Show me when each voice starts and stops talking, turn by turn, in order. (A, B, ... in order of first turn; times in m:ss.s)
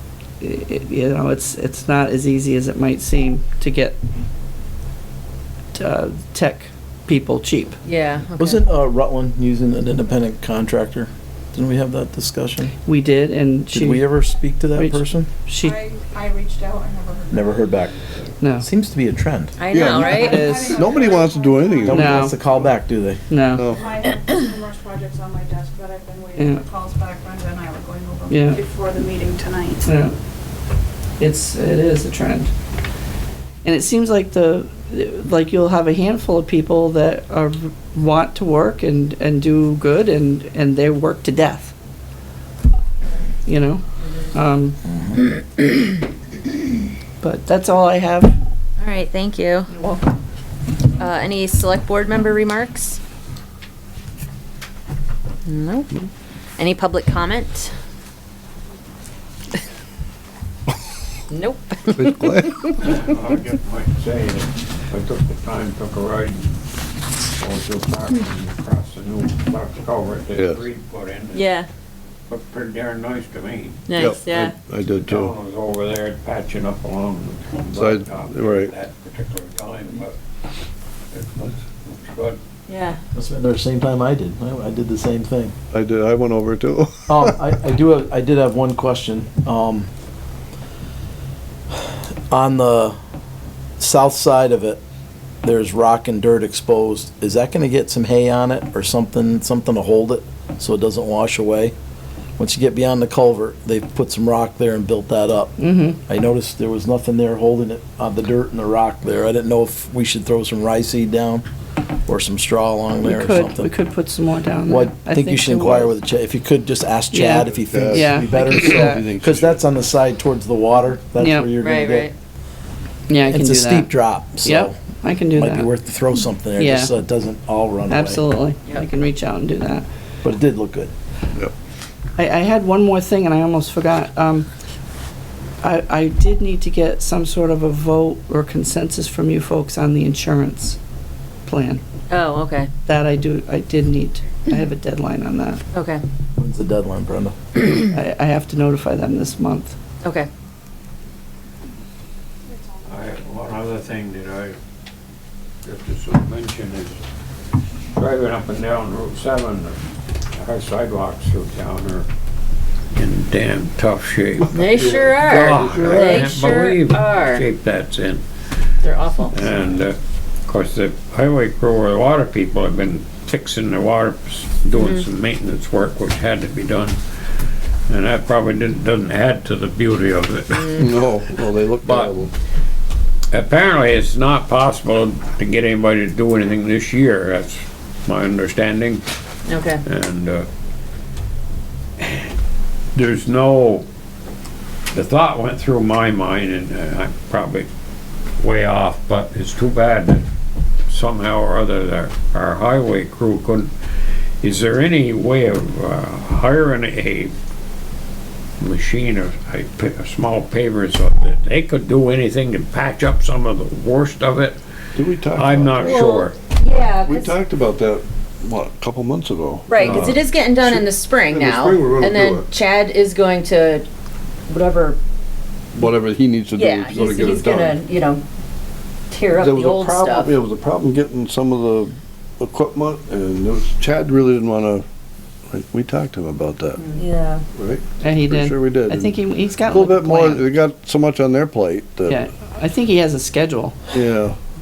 0:00.4-0:04.0 A
0:05.7-0:07.8 A
0:07.8-0:08.6 B
0:08.4-0:12.7 C
0:12.8-0:14.0 A
0:13.7-0:15.3 C
0:14.7-0:15.8 A
0:15.6-0:17.6 D
0:17.3-0:17.9 C
0:18.4-0:18.7 A
0:18.6-0:19.6 C
0:19.6-0:20.5 B
0:19.7-0:22.7 E
0:19.9-0:22.0 D
0:20.0-0:20.9 A
0:21.8-0:23.2 C
0:21.9-0:22.4 A
0:23.3-0:23.7 A
0:23.5-0:23.9 E
0:23.8-0:29.9 D
0:26.4-0:26.6 A
0:28.3-0:28.6 A
0:29.8-0:30.1 A
0:31.2-0:32.5 A
0:33.6-0:41.7 A
0:43.4-0:44.8 A
0:44.9-0:45.2 C
0:47.2-0:48.3 A
0:48.8-0:49.7 B
0:49.7-0:50.1 A
0:51.0-0:53.0 B
0:55.4-0:55.9 B
0:56.6-0:57.7 B
1:01.3-1:02.7 B
1:01.8-1:02.7 E
1:02.8-1:06.6 F
1:07.3-1:11.5 F
1:10.3-1:10.6 E
1:11.3-1:11.7 B
1:12.3-1:13.9 F
1:13.9-1:14.5 B
1:14.0-1:15.3 E
1:15.0-1:20.2 F
1:17.7-1:18.7 E
1:21.1-1:22.4 F
1:22.7-1:23.0 B
1:23.1-1:25.5 C
1:25.7-1:27.4 E
1:27.1-1:29.9 C
1:31.7-1:33.0 C
1:33.8-1:34.8 C
1:35.4-1:41.7 C
1:42.4-1:51.4 C
1:45.6-1:46.0 A
1:52.0-1:53.7 C
1:53.0-1:55.9 A
1:54.7-2:02.1 C
1:57.1-1:59.0 A
1:57.4-1:59.6 E
2:01.2-2:01.5 A
2:01.6-2:02.1 B
2:03.1-2:05.7 A
2:03.2-2:04.8 C
2:05.3-2:08.2 C
2:06.6-2:06.9 A
2:07.9-2:09.9 A
2:10.2-2:10.9 C
2:12.2-2:14.5 A
2:15.6-2:20.8 A
2:21.4-2:21.8 A
2:22.1-2:22.7 B
2:22.8-2:25.6 A
2:25.7-2:26.0 B
2:26.4-2:27.3 C
2:27.9-2:29.8 A
2:30.0-2:30.3 B
2:32.8-2:34.6 F
2:35.6-2:37.0 F
2:37.9-2:39.8 F
2:40.4-2:42.1 F
2:42.9-2:48.2 F
2:44.5-2:47.4 B
2:44.6-2:46.6 E
2:48.8-2:49.4 B
2:49.3-2:57.0 F
2:54.7-2:55.0 B
2:57.9-3:00.9 F
3:00.5-3:00.8 B
3:00.8-3:02.3 E
3:01.8-3:02.2 F
3:03.3-3:09.0 F
3:09.5-3:09.8 B
3:09.8-3:10.5 F
3:12.0-3:12.3 F
3:12.9-3:13.8 F
3:14.9-3:17.7 F
3:18.4-3:20.2 F
3:20.9-3:23.7 F
3:24.4-3:27.3 F
3:28.6-3:34.6 F
3:35.0-3:36.2 E
3:35.3-3:36.4 F
3:35.8-3:37.4 B
3:37.0-3:42.5 E
3:39.7-3:43.8 B
3:39.8-3:40.1 F
3:44.5-3:45.0 B
3:45.7-3:47.8 E
3:46.5-3:48.2 B
3:49.1-3:50.4 B
3:49.3-3:54.8 E
3:55.5-3:57.0 E
3:56.8-3:57.4 B
3:57.5-4:02.2 E
3:58.0-4:00.4 A
4:02.0-4:03.8 A
4:03.9-4:04.4 E